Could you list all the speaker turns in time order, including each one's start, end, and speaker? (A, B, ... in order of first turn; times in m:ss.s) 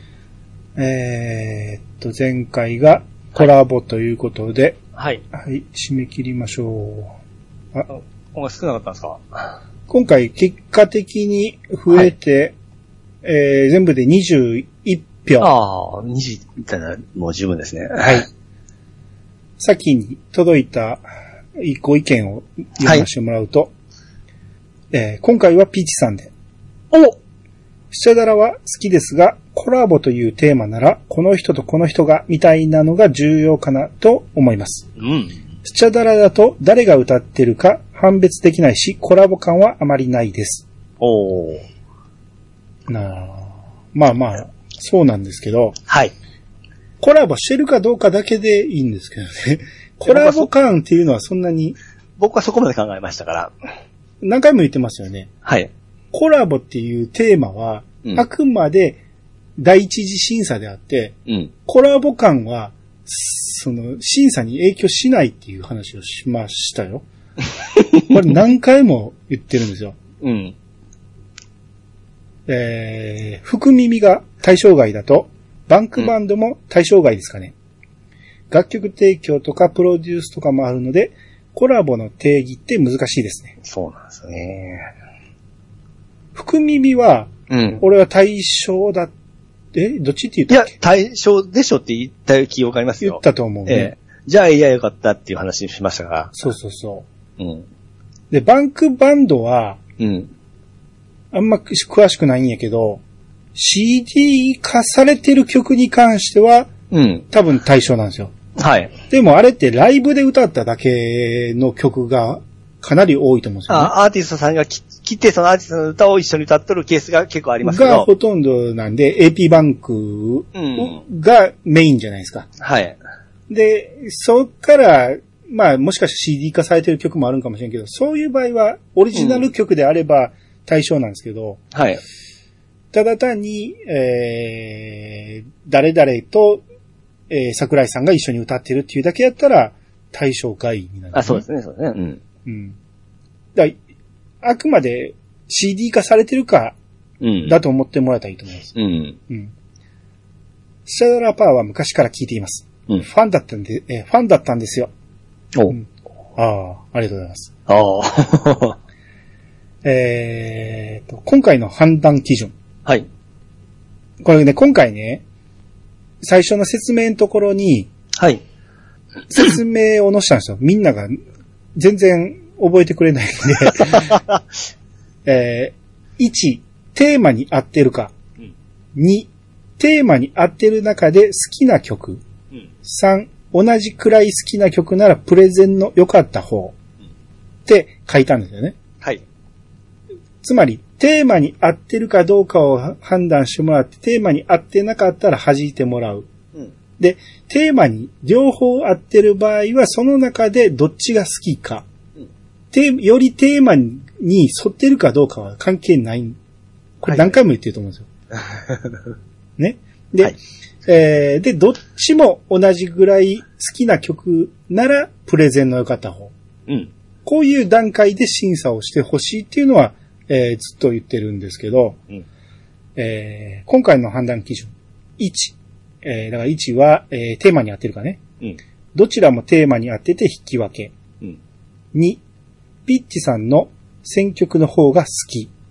0:00.8-0:04.8 A
0:05.0-0:05.2 B
0:05.3-0:07.1 A
0:07.9-0:09.6 B
0:09.9-0:12.6 A
0:13.2-0:15.5 A
0:15.4-0:18.2 B
0:18.0-0:18.3 A
0:19.6-0:21.0 A
0:21.6-0:23.7 A
0:24.9-0:26.3 A
0:26.9-0:27.2 B
0:27.9-0:34.9 A
0:35.0-0:35.3 B
0:35.6-0:40.6 A
0:41.0-0:41.6 B
0:42.9-0:45.8 A
0:45.9-0:46.1 B
0:47.0-0:51.8 A
0:50.1-0:50.5 B
0:52.2-0:53.5 B
0:54.2-0:55.3 A
0:55.4-0:55.7 B
0:56.1-0:59.0 A
0:59.6-1:01.1 A
1:01.7-1:07.0 A
1:07.8-1:08.0 B
1:08.1-1:10.0 A
1:10.2-1:10.6 B
1:12.5-1:17.5 A
1:18.5-1:23.6 A
1:23.6-1:24.9 B
1:26.3-1:29.1 A
1:27.5-1:27.8 B
1:29.7-1:30.7 A
1:30.5-1:36.3 B
1:33.0-1:33.9 A
1:36.3-1:37.1 A
1:37.4-1:37.7 B
1:38.3-1:39.8 A
1:40.0-1:40.3 B
1:41.3-1:43.0 A
1:43.6-1:46.7 A
1:46.9-1:47.2 B
1:47.3-1:48.3 A
1:48.6-1:48.9 B
1:49.1-1:53.9 A
1:53.7-1:58.1 B
1:57.6-2:02.5 A
2:00.6-2:01.0 B
2:02.6-2:03.0 B
2:03.5-2:11.6 A
2:09.2-2:09.4 B
2:11.7-2:12.0 B
2:12.9-2:16.6 A
2:17.3-2:21.4 A
2:21.1-2:22.2 B
2:22.5-2:22.8 A
2:24.4-2:26.8 A
2:27.2-2:27.6 B
2:27.4-2:28.7 A
2:28.8-2:29.2 B
2:30.8-2:34.9 A
2:35.7-2:37.5 A
2:37.7-2:38.8 B
2:39.8-2:42.5 A
2:44.2-2:45.2 A
2:46.2-2:47.9 A
2:48.1-2:48.4 B
2:49.3-2:51.1 A
2:51.8-2:54.2 A
2:53.8-2:54.4 B
2:55.2-2:58.1 A
2:58.9-3:02.2 A
3:02.8-3:06.8 A
3:07.7-3:08.8 A
3:10.4-3:16.3 A
3:17.0-3:21.8 A
3:22.7-3:26.4 A
3:27.0-3:28.1 A
3:27.1-3:27.4 B
3:28.5-3:29.1 B
3:29.6-3:36.3 A
3:37.2-3:42.0 A
3:43.0-3:48.2 A
3:48.9-3:50.9 A
3:51.9-3:52.2 A
3:52.9-3:55.5 A